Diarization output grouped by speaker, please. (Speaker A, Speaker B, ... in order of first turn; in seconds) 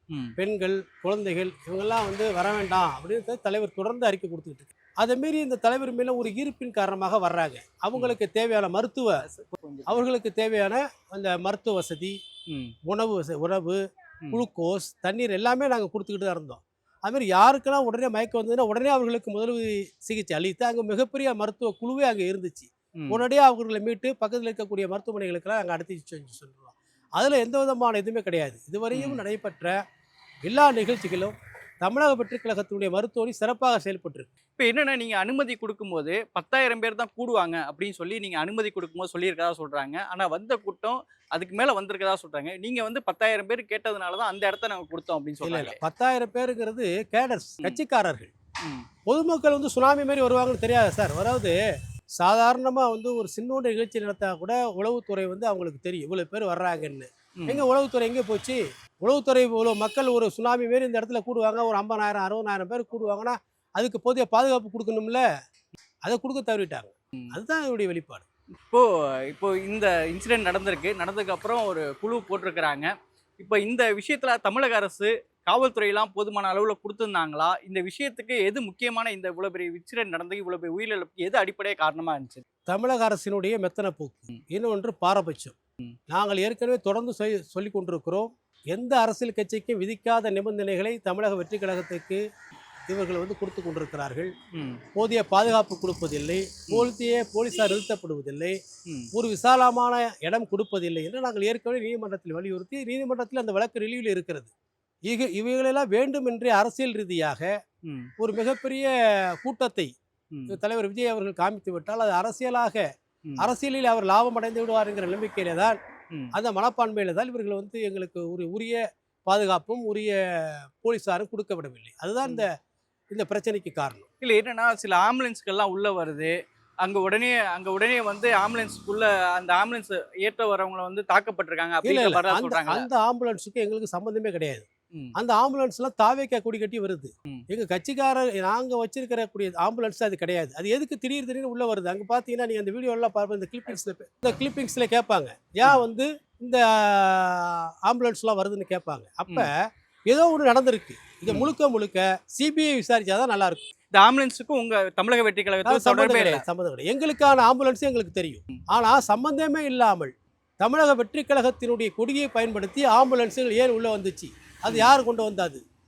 Speaker A: 0.4-9.2, 9.9-12.1, 12.9-13.8, 14.3-29.8, 30.4-34.3, 45.4-48.3, 49.1-51.5, 52.2-65.2, 66.0-68.2, 82.7-85.5, 86.1-92.2, 92.9-94.3, 95.0-98.6, 99.1-104.5, 105.1-107.5, 108.2-109.9, 110.5-112.8, 113.4-115.8, 116.3-120.2, 120.8-122.5, 123.1-124.0, 131.8-149.5, 150.1-153.7, 155.6-165.6
Speaker B: 9.3-10.0, 12.5-12.7, 28.9-29.2, 34.6-45.8, 57.4-57.6, 68.7-82.4, 94.5-94.8, 124.2-126.3, 126.8-132.9, 151.3-151.5, 153.9-156.4